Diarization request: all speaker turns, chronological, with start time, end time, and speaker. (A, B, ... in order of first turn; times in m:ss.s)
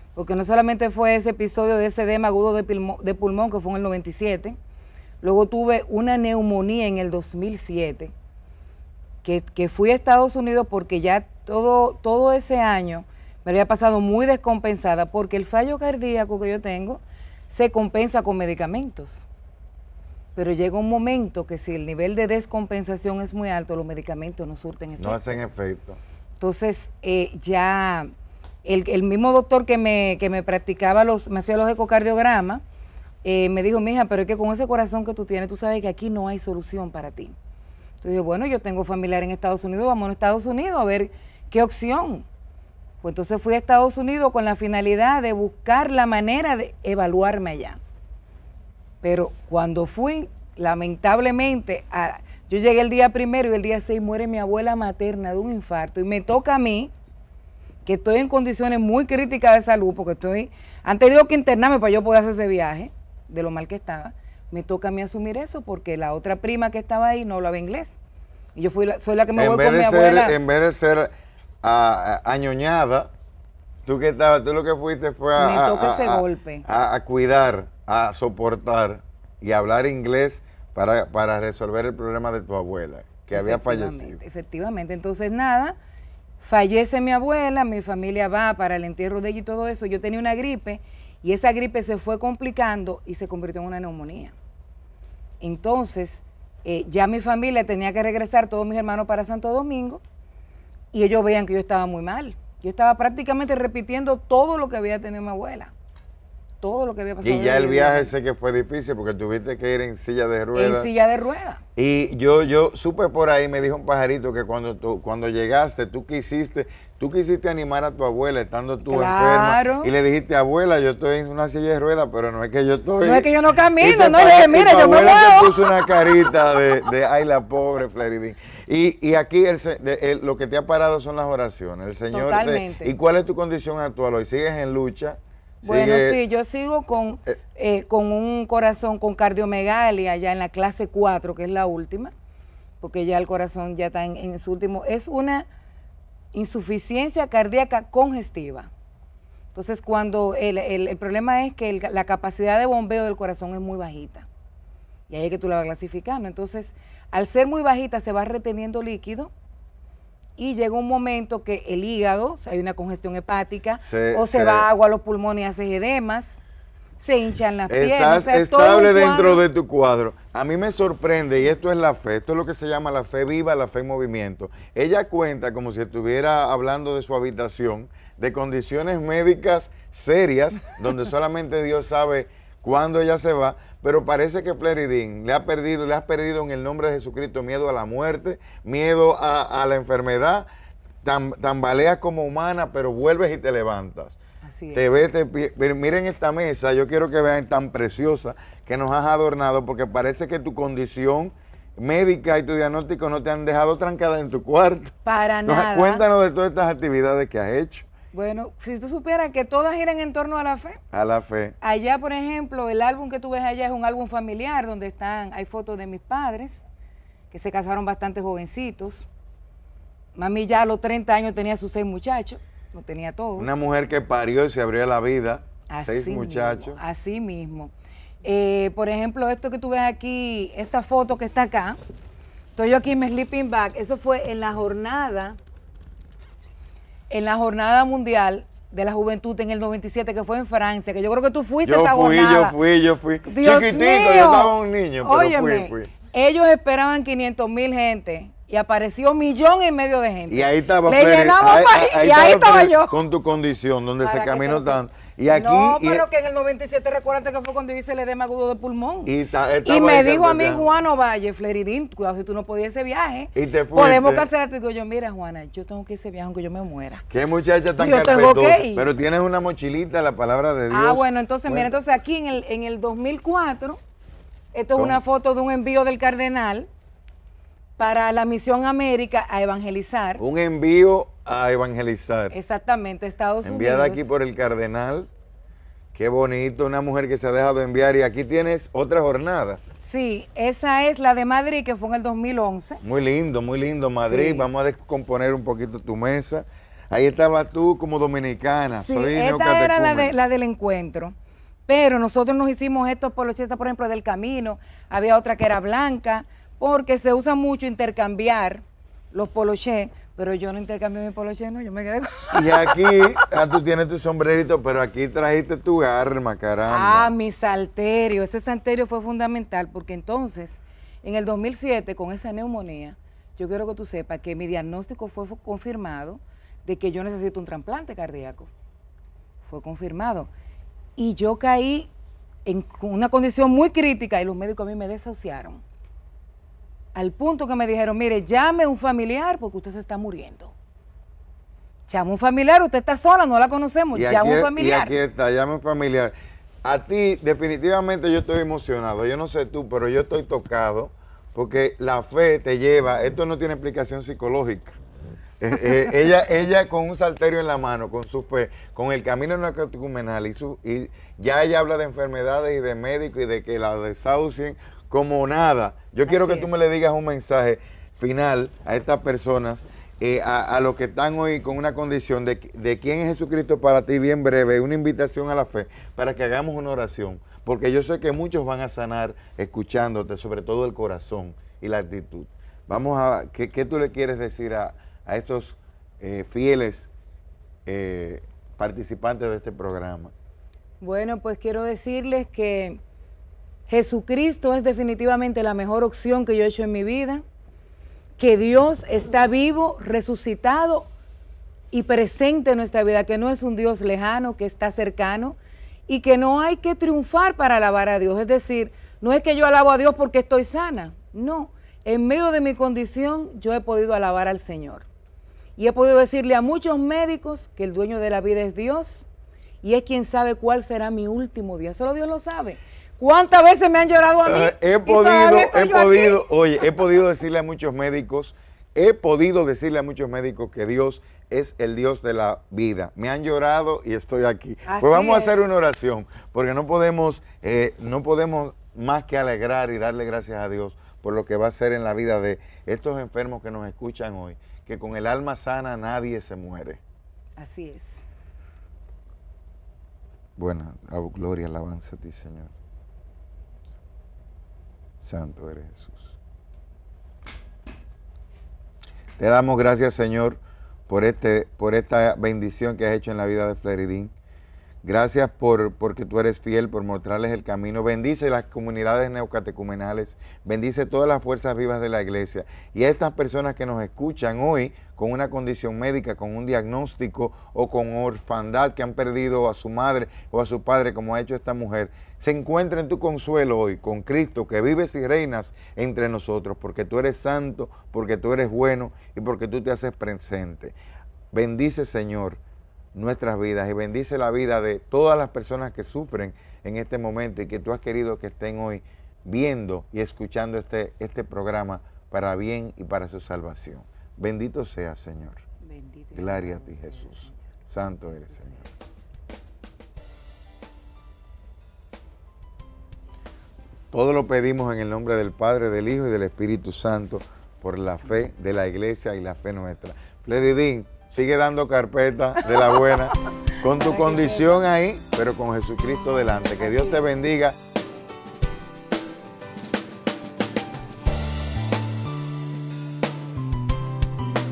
0:00.2-0:04.6 A
0:05.2-0:08.1 A
0:09.2-0:19.2 A
0:20.4-0:25.4 A
0:25.0-0:26.0 B
0:26.4-0:28.1 A
0:28.6-0:32.6 A
0:33.2-0:37.4 A
0:38.0-0:42.3 A
0:43.0-0:47.8 A
0:49.0-0:56.9 A
0:57.8-1:08.0 A
1:08.6-1:10.4 A
1:09.4-1:11.1 B
1:11.6-1:13.1 B
1:13.9-1:24.2 B
1:15.4-1:16.6 A
1:23.3-1:25.8 A
1:26.4-1:34.3 A
1:35.4-1:40.0 A
1:40.9-1:45.7 A
1:46.6-1:48.1 A
1:47.2-1:50.9 B
1:50.5-1:51.6 A
1:51.8-2:16.2 B
1:58.9-1:59.9 A
2:03.0-2:06.1 A
2:12.1-2:12.9 A
2:15.6-2:22.1 A
2:22.8-2:25.5 A
2:26.3-2:28.7 A
2:29.5-2:34.3 A
2:35.1-2:39.3 A
2:40.4-2:46.4 A
2:43.8-2:44.7 B
2:47.0-2:49.4 A
2:47.7-3:10.5 B
3:11.0-3:14.2 B
3:14.4-3:14.9 A
3:14.7-3:25.0 B
3:25.0-3:26.0 A
3:25.5-3:27.9 B
3:28.1-3:30.8 A
3:30.9-3:31.6 B
3:31.6-3:36.6 A
3:37.3-3:39.1 A
3:40.2-3:43.5 A
3:43.4-3:46.8 B
3:45.7-3:47.7 A
3:48.2-3:51.8 A
3:52.6-3:55.4 A
3:57.1-4:02.6 A
4:01.6-4:05.9 B
4:03.2-4:12.9 A
4:10.3-4:16.0 B
4:14.0-4:19.1 A
4:19.1-4:20.7 B
4:19.6-4:27.0 A
4:23.4-4:24.3 B
4:27.1-4:31.7 B
4:27.8-4:28.9 A
4:30.7-4:33.8 A
4:34.5-4:36.7 A
4:37.8-4:40.2 A
4:40.2-4:42.4 B
4:42.3-4:44.0 A
4:43.4-4:45.1 B
4:45.9-4:49.6 B
4:49.8-4:52.8 A
4:52.8-5:00.2 B
4:54.0-4:54.5 A
4:58.7-5:01.2 A
5:01.7-5:13.0 A
5:12.3-5:17.1 B
5:16.7-5:28.5 A
5:29.4-5:30.3 A
5:31.0-5:31.9 A
5:32.5-5:35.6 A
5:37.0-5:40.5 A
5:41.9-5:45.0 A
5:43.9-5:54.8 B
5:55.4-6:26.9 B
6:06.1-6:06.5 A
6:27.7-6:30.1 B
6:30.8-6:32.8 A
6:33.7-6:37.2 A
6:38.2-6:40.9 A
6:41.7-6:54.9 A
6:55.6-6:59.0 A
6:59.6-7:06.2 A
7:04.3-7:26.8 B
7:14.7-7:15.4 A
7:27.4-7:28.0 A
7:30.4-7:32.5 B
7:35.0-7:36.2 B
7:39.2-7:44.1 B
7:44.8-8:10.8 B
8:11.3-8:12.4 B
8:13.0-8:25.4 B
8:25.6-8:27.4 A
8:26.1-8:28.7 B
8:33.9-8:47.6 B
8:42.5-8:43.0 A
8:43.8-8:44.7 A
8:46.6-8:47.0 A